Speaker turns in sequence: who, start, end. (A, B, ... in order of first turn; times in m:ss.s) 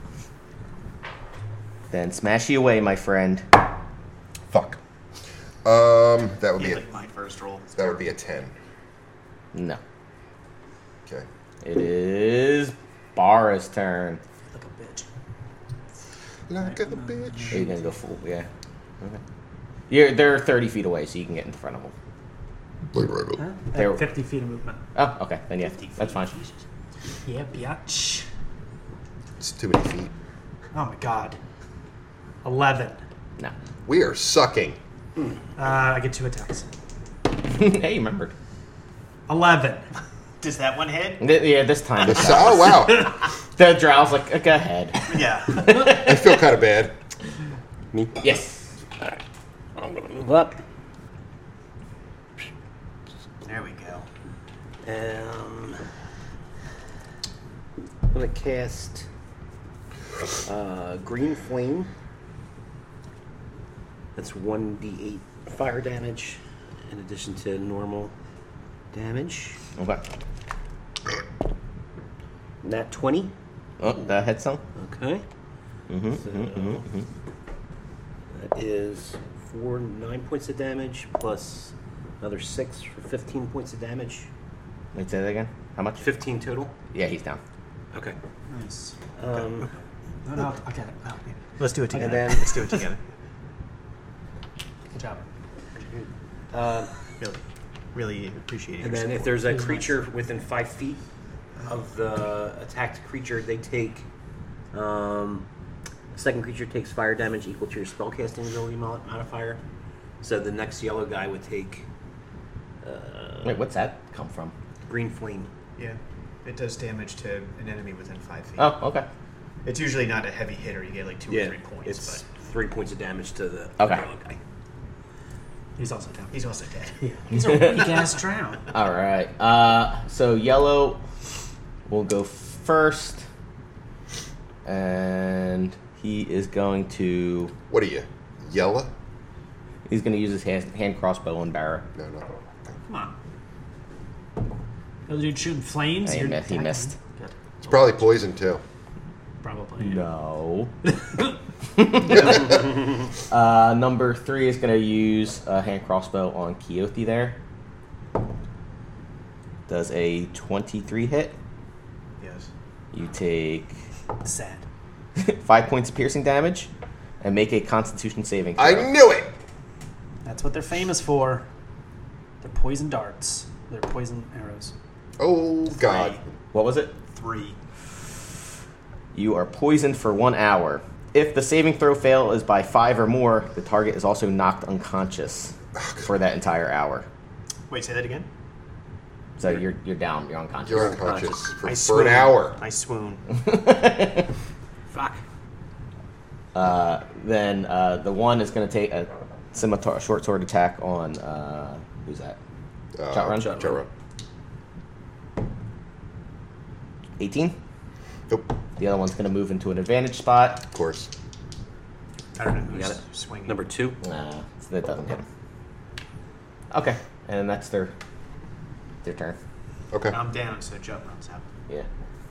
0:01.9-0:03.4 A
0:04.5-0:04.8 B
0:05.6-0:06.8 B
0:06.6-0:08.1 C
0:07.8-0:08.5 B
0:09.5-0:09.8 A
0:11.6-0:14.2 A
0:14.5-0:15.0 D
0:16.5-0:17.6 B
0:16.6-0:17.9 D
0:17.5-0:18.5 A
0:19.9-0:21.9 A
0:22.9-0:23.4 B
0:23.4-0:24.8 D
0:23.7-0:24.1 A
0:24.9-0:26.3 A
0:25.6-0:26.6 C
0:27.2-0:28.2 D
0:29.4-0:30.1 B
0:30.7-0:31.4 D
0:32.4-0:33.0 D
0:33.8-0:34.8 B
0:35.6-0:36.7 D
0:37.5-0:38.3 A
0:39.3-0:39.9 D
0:40.4-0:41.2 C
0:41.2-0:46.1 A
0:42.0-0:43.1 B
0:45.1-0:45.8 C
0:45.7-0:46.9 B
0:48.2-0:48.7 A
0:49.8-0:50.6 E
0:53.4-0:54.0 C
0:54.8-0:55.8 E
0:58.1-0:59.1 E
1:00.4-1:01.9 E
1:04.2-1:08.1 E
1:08.9-1:09.6 E
1:09.8-1:10.0 A
1:12.6-1:13.3 E
1:13.8-1:14.6 A
1:14.7-1:15.2 E
1:15.9-1:17.0 A
1:16.1-1:16.8 E
1:18.3-1:24.3 E
1:24.9-1:26.1 A
1:26.0-1:26.7 E
1:26.9-1:27.4 A
1:27.9-1:28.2 E
1:28.5-1:29.0 D
1:29.2-1:29.7 E
1:30.2-1:31.4 D
1:31.6-1:33.0 C
1:31.9-1:32.4 D
1:32.0-1:32.5 E
1:34.9-1:35.2 D
1:35.8-1:36.9 E
1:37.9-1:39.4 C
1:38.8-1:41.0 E
1:39.5-1:39.9 D
1:41.6-1:44.0 E
1:44.7-1:45.4 E
1:46.1-1:49.6 E
1:50.2-1:51.8 E
1:52.8-1:53.6 E
1:53.4-1:54.5 A
1:54.8-1:55.5 E
1:55.8-1:58.7 C
1:58.6-1:59.0 A
1:59.6-2:02.2 C
2:01.3-2:04.4 E
2:03.8-2:04.0 A
2:05.8-2:06.4 D
2:06.3-2:07.0 C
2:07.0-2:08.7 D
2:07.3-2:08.0 A
2:08.7-2:11.0 A
2:11.9-2:13.2 A
2:14.6-2:17.5 A
2:17.7-2:18.9 B
2:19.9-2:21.8 A
2:22.0-2:22.3 B
2:22.9-2:23.1 D
2:25.1-2:28.0 D
2:26.0-2:26.9 A
2:27.6-2:28.6 B
2:29.4-2:30.1 D
2:29.8-2:30.7 A
2:31.8-2:32.8 A
2:33.3-2:37.4 A
2:39.7-2:41.3 A
2:42.2-2:42.5 C
2:42.9-2:43.7 A
2:44.2-2:44.6 D
2:45.2-2:46.7 A
2:47.2-2:48.9 A
2:48.6-2:49.3 B
2:50.2-2:51.4 D
2:52.4-2:54.7 D
2:55.2-2:56.2 B
2:55.7-2:56.2 C
2:56.5-2:56.9 A
2:57.1-2:57.6 C
2:59.1-3:07.0 A
3:05.8-3:06.0 B
3:07.7-3:08.3 C
3:09.4-3:11.0 A
3:10.6-3:12.6 B
3:10.8-3:11.4 E
3:11.6-3:13.2 C
3:13.3-3:14.3 A
3:14.9-3:15.2 E
3:16.5-3:22.4 A
3:23.0-3:23.9 B
3:23.1-3:23.6 A
3:23.4-3:23.8 E
3:27.2-3:27.6 A
3:28.8-3:30.6 A
3:30.7-3:31.1 B
3:32.4-3:33.6 C
3:32.7-3:34.0 E
3:34.0-3:35.2 A
3:36.7-3:37.9 A
3:39.0-3:39.4 A
3:40.1-3:41.5 C